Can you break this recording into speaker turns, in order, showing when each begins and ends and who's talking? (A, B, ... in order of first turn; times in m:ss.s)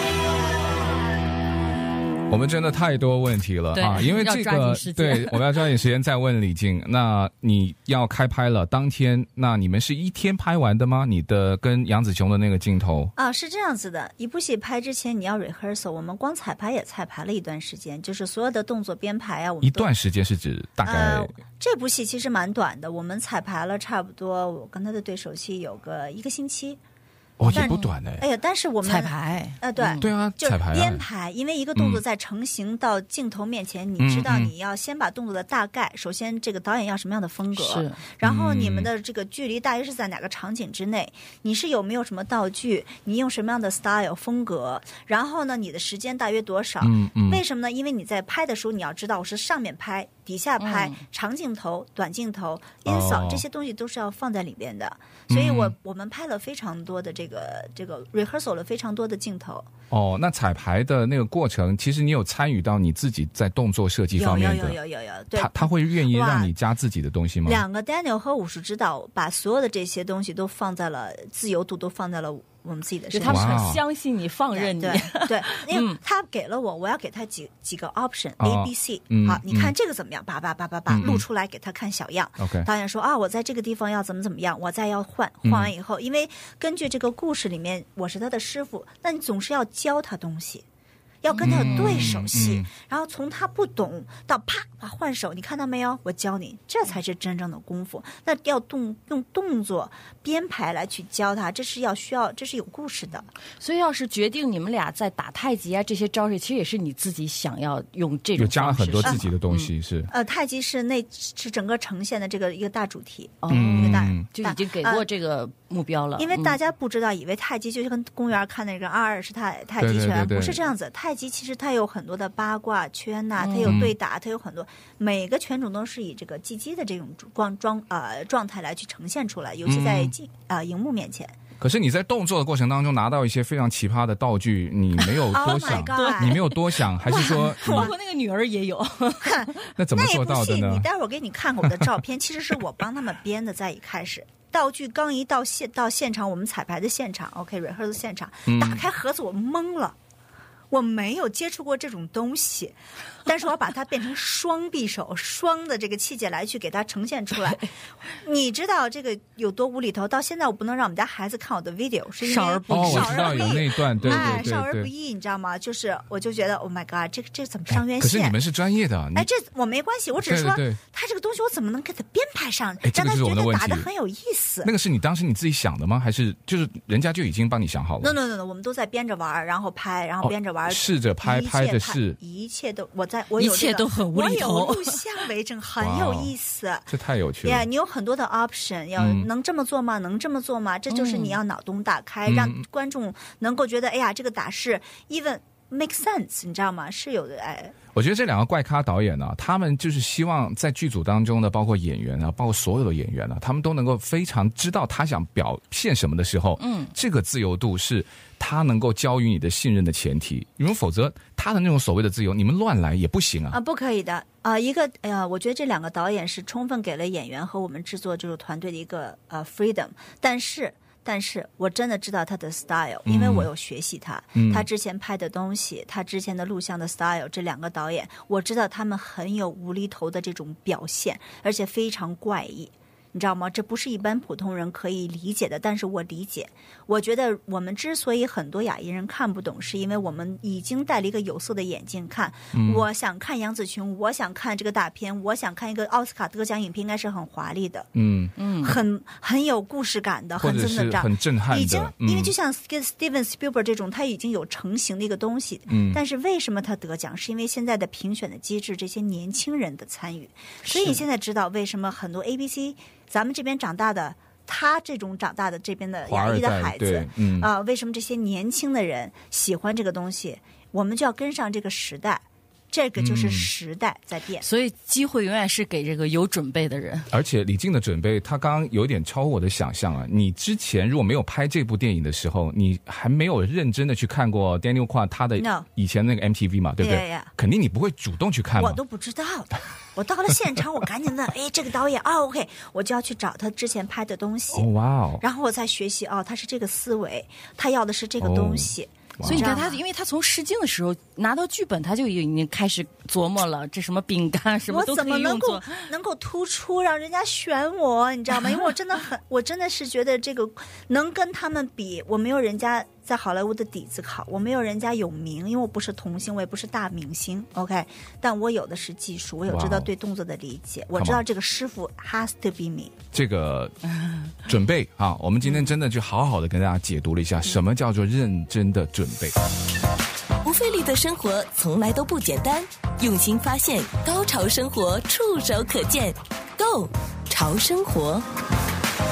0:02.3-0:13.1 A
0:03.7-0:05.4 B
0:13.2-0:19.9 C
0:19.6-0:21.3 A
0:20.8-0:26.8 C
0:27.4-0:28.2 A
0:27.5-0:59.7 C
0:27.5-0:27.9 B
0:28.8-0:30.1 B
0:30.0-0:31.0 A
0:31.8-0:32.0 A
0:34.0-0:34.5 A
0:37.6-0:38.0 B
0:38.2-0:38.9 A
0:46.8-0:47.4 A
0:50.6-0:51.0 B
0:52.8-0:53.4 A
0:55.3-0:55.7 A
0:59.9-1:04.8 A
1:04.1-1:06.5 C
1:05.3-1:07.6 A
1:07.4-1:13.7 C
1:13.1-1:16.0 B
1:13.2-1:13.8 A
1:14.5-1:30.6 C
1:18.4-1:19.7 A
1:20.9-1:21.2 A
1:22.4-1:22.7 A
1:25.4-1:25.7 A
1:31.2-1:43.3 C
1:31.3-1:32.2 B
1:31.4-1:32.7 A
1:43.6-1:49.7 B
1:48.4-1:50.1 A
1:50.1-1:55.0 C
1:53.4-1:56.6 B
1:53.5-1:54.2 A
1:56.2-2:11.4 C
1:59.8-2:00.6 A
2:03.4-2:03.9 B
2:03.6-2:03.9 A
2:09.6-2:10.1 A
2:11.6-2:17.9 A
2:15.0-2:19.6 B
2:15.3-2:16.5 C
2:17.0-2:17.9 C
2:19.2-2:30.0 C
2:19.8-2:20.8 A
2:28.5-2:28.8 A
2:30.7-2:48.4 C
2:42.2-2:44.4 B
2:42.7-2:44.9 A
2:47.7-2:49.3 A
2:49.1-2:54.7 C
2:50.2-2:50.8 A
2:52.8-2:53.9 A
2:54.6-2:58.1 A
2:58.0-3:06.9 C
3:00.2-3:02.2 A
3:03.4-3:05.0 B
3:05.8-3:06.3 A
3:06.9-3:07.6 A
3:07.4-3:17.7 C
3:09.0-3:09.3 A
3:10.9-3:11.4 B
3:12.2-3:12.6 A
3:17.9-3:33.6 A
3:26.6-3:26.9 B
3:33.5-4:07.9 C
3:43.0-3:43.5 A
3:44.4-3:44.6 A
4:02.5-4:02.8 A
4:07.9-4:08.3 A
4:08.4-4:08.8 B
4:08.6-4:34.4 C
4:10.4-4:12.3 A
4:15.7-4:16.0 A
4:20.6-4:21.0 A
4:26.0-4:27.5 A
4:33.0-4:33.5 A
4:34.4-4:37.1 B
4:37.1-4:48.8 A
4:45.4-4:45.7 C
4:46.8-4:47.3 C
4:48.6-4:54.7 C
4:54.5-4:55.2 A
4:55.2-4:59.8 C
4:58.2-4:59.6 A
4:59.2-5:05.8 B
5:04.7-5:23.0 C
5:19.5-5:19.9 A
5:21.0-5:21.2 A
5:23.1-5:23.7 A
5:24.4-5:29.3 A
5:30.4-5:38.2 D